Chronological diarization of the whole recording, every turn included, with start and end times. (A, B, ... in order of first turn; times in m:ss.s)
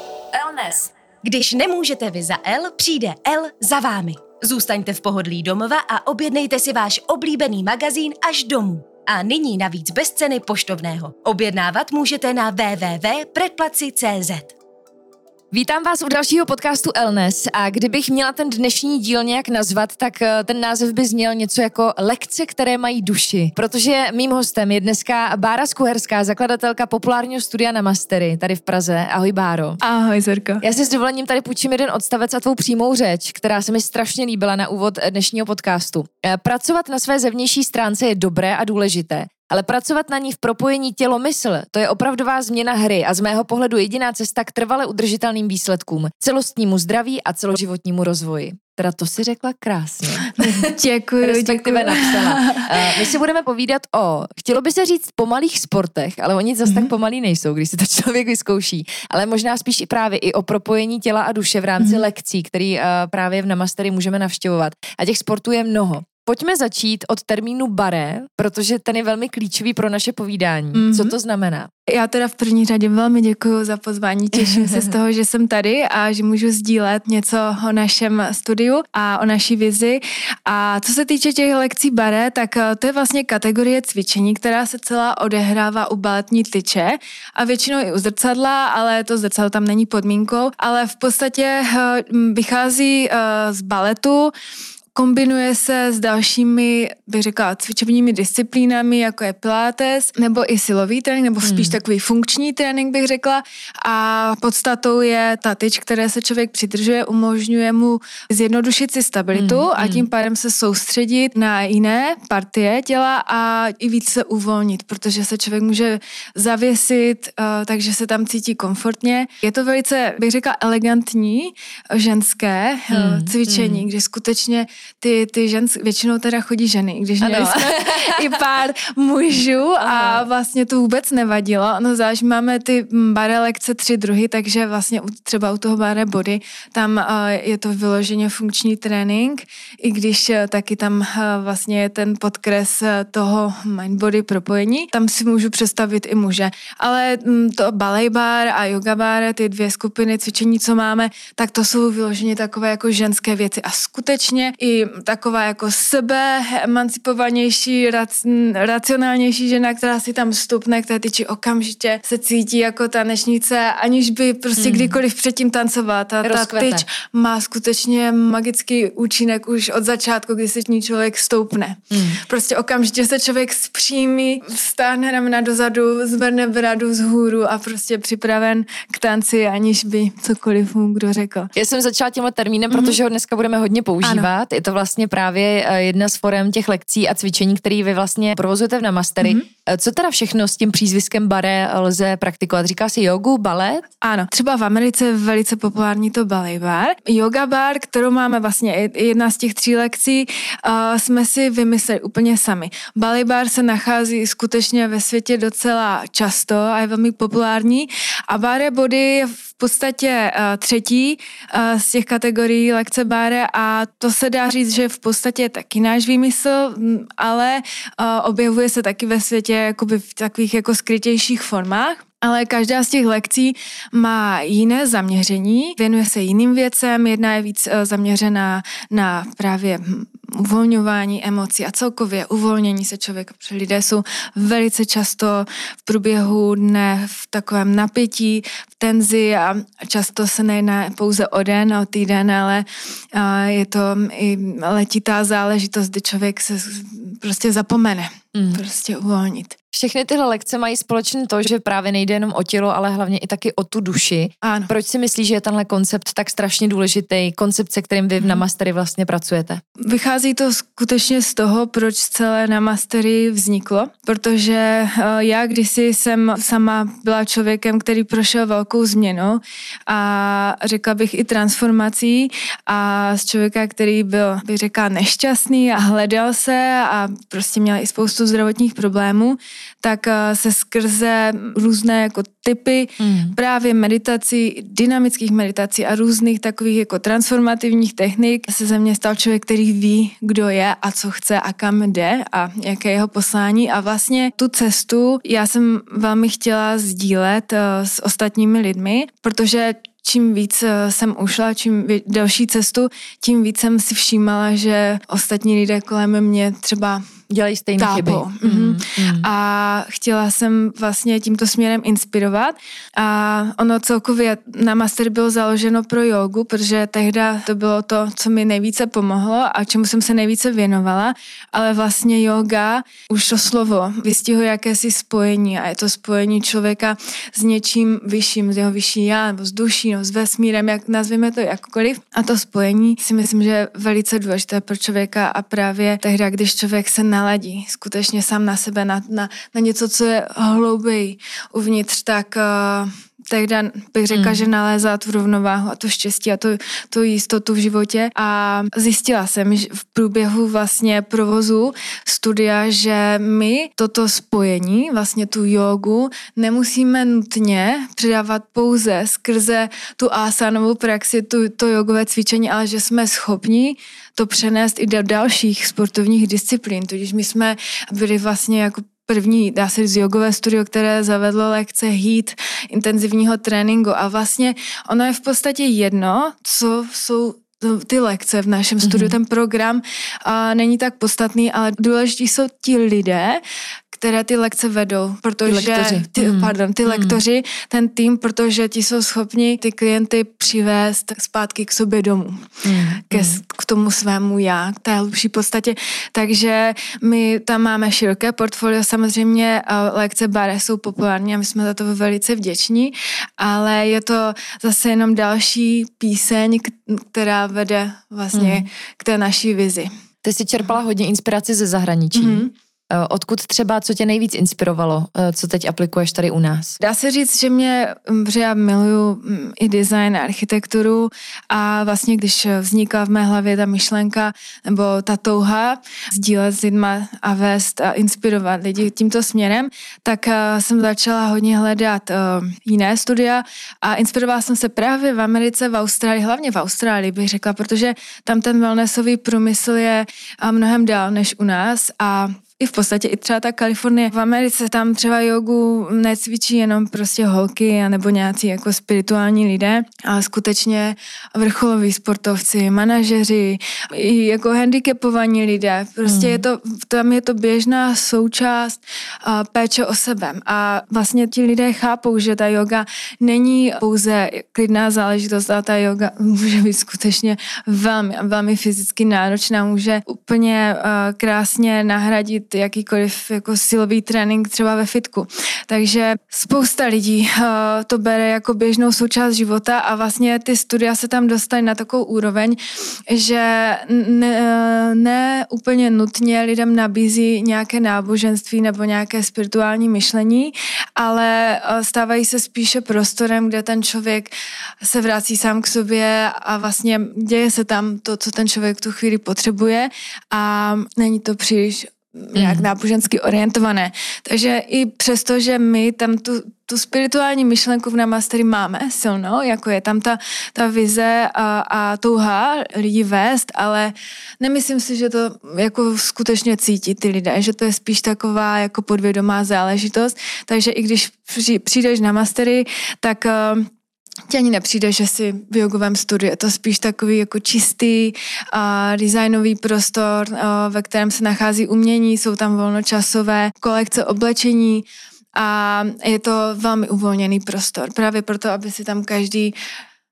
0:00.3-0:00.9 A
0:01.2-0:14.5 B
0:03.2-0:05.6 A
0:06.4-0:07.4 A
0:10.2-0:11.5 A
0:15.5-0:29.8 A
0:29.8-0:30.6 C
0:30.6-0:50.7 A
0:50.2-0:52.9 C
0:51.2-1:11.7 A
0:56.6-0:56.9 C
1:10.7-1:11.2 C
1:11.9-1:34.3 C
1:14.4-1:14.9 A
1:34.9-3:01.5 C
1:41.4-1:41.8 A
1:49.3-1:50.0 A
2:02.9-2:03.8 A
2:07.2-2:08.3 A
2:09.8-2:10.3 A
2:44.6-2:45.0 A
2:46.2-2:46.8 A
2:51.9-2:52.2 A
3:01.6-3:13.9 A
3:02.7-3:03.0 C
3:04.0-3:04.3 C
3:09.2-3:09.5 C
3:14.0-4:09.6 C
4:08.3-4:08.6 A
4:09.7-4:19.6 A
4:14.4-4:14.7 C
4:19.8-5:07.0 C
4:43.0-4:43.4 A
5:07.3-5:09.3 A
5:07.8-6:49.9 C
5:44.1-5:44.4 A
6:18.8-6:19.1 A
6:25.4-6:27.2 A
6:32.6-6:33.4 A
6:48.3-6:48.6 A
6:50.2-6:56.8 A
6:52.1-6:52.5 C
6:56.8-8:43.7 C
7:36.0-7:36.4 A
8:22.3-8:22.7 A
8:44.3-8:59.5 C